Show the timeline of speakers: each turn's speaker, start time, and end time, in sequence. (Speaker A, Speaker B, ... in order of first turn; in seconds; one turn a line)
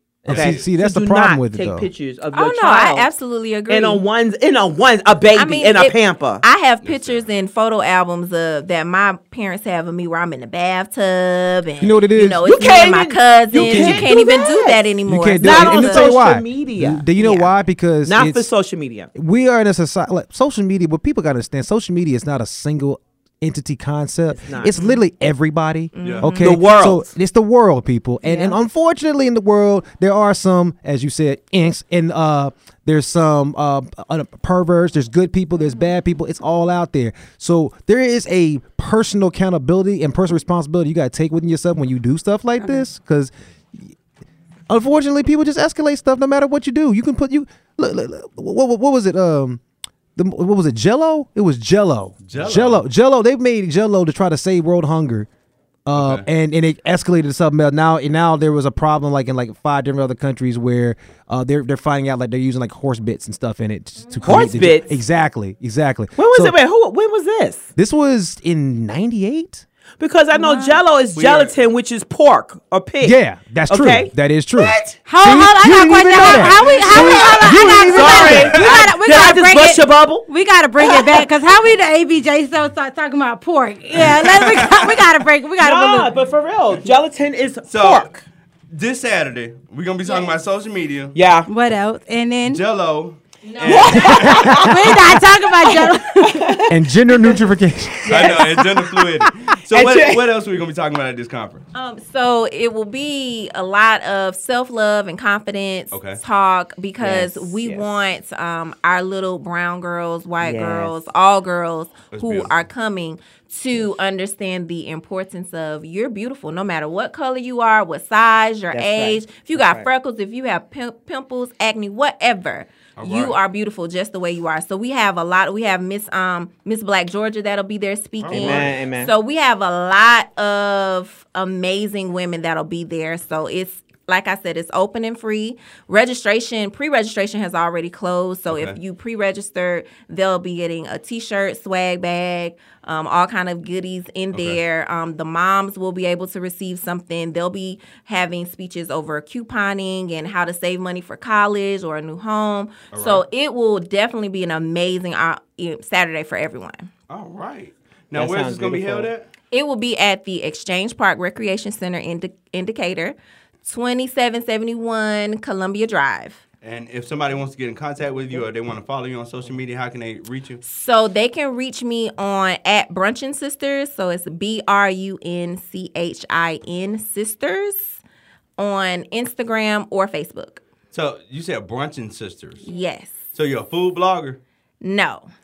Speaker A: 0.2-3.1
Speaker B: 0.3-0.7
Speaker C: 0.3-1.9
Speaker D: 2.3-4.0
Speaker A: 3.7-6.4
Speaker D: 5.3-16.2
Speaker B: 6.8-7.3
Speaker C: 11.8-12.4
Speaker A: 12.4-17.2
Speaker C: 13.6-14.1
Speaker C: 15.1-18.5
Speaker D: 17.2-17.5
Speaker A: 18.0-19.1
Speaker C: 19.1-43.9
Speaker A: 24.4-24.8
Speaker D: 25.9-26.6
Speaker B: 26.0-26.3
Speaker A: 26.4-27.1
Speaker A: 28.3-28.5
Speaker E: 42.6-42.9
Speaker C: 44.7-49.6
Speaker C: 50.2-55.3
Speaker B: 52.3-52.9
Speaker C: 55.9-66.6
Speaker B: 56.0-56.3
Speaker D: 64.1-64.7
Speaker A: 64.2-64.9
Speaker A: 66.2-67.7
Speaker C: 67.8-69.7
Speaker A: 70.0-74.9
Speaker E: 70.3-70.8
Speaker B: 71.1-71.6
Speaker C: 73.0-78.7
Speaker E: 75.1-86.1
Speaker A: 76.1-80.3
Speaker A: 80.8-81.3
Speaker B: 84.0-85.0
Speaker A: 85.6-88.2
Speaker B: 87.7-88.1
Speaker B: 88.7-91.2
Speaker D: 90.1-90.3
Speaker A: 91.1-91.5
Speaker E: 91.5-92.6
Speaker B: 92.5-94.7
Speaker D: 93.4-94.4
Speaker A: 93.7-95.1
Speaker E: 94.4-96.6
Speaker A: 95.7-97.4
Speaker C: 96.7-98.7
Speaker A: 98.0-98.7
Speaker B: 98.1-101.7
Speaker A: 99.7-100.3
Speaker D: 101.7-156.9
Speaker B: 105.9-106.2
Speaker A: 107.0-107.9
Speaker A: 110.4-111.0
Speaker B: 112.1-112.5
Speaker A: 118.7-119.9
Speaker B: 123.0-123.4
Speaker B: 128.2-128.8
Speaker A: 128.3-129.1
Speaker B: 138.5-138.8
Speaker B: 144.3-144.6
Speaker B: 152.9-153.2
Speaker B: 157.1-159.3
Speaker A: 158.1-159.1
Speaker D: 159.5-166.4
Speaker B: 166.6-170.6
Speaker D: 170.6-178.0
Speaker D: 178.6-180.6
Speaker B: 180.9-182.6
Speaker D: 182.6-183.3
Speaker B: 183.3-184.4
Speaker D: 184.8-185.3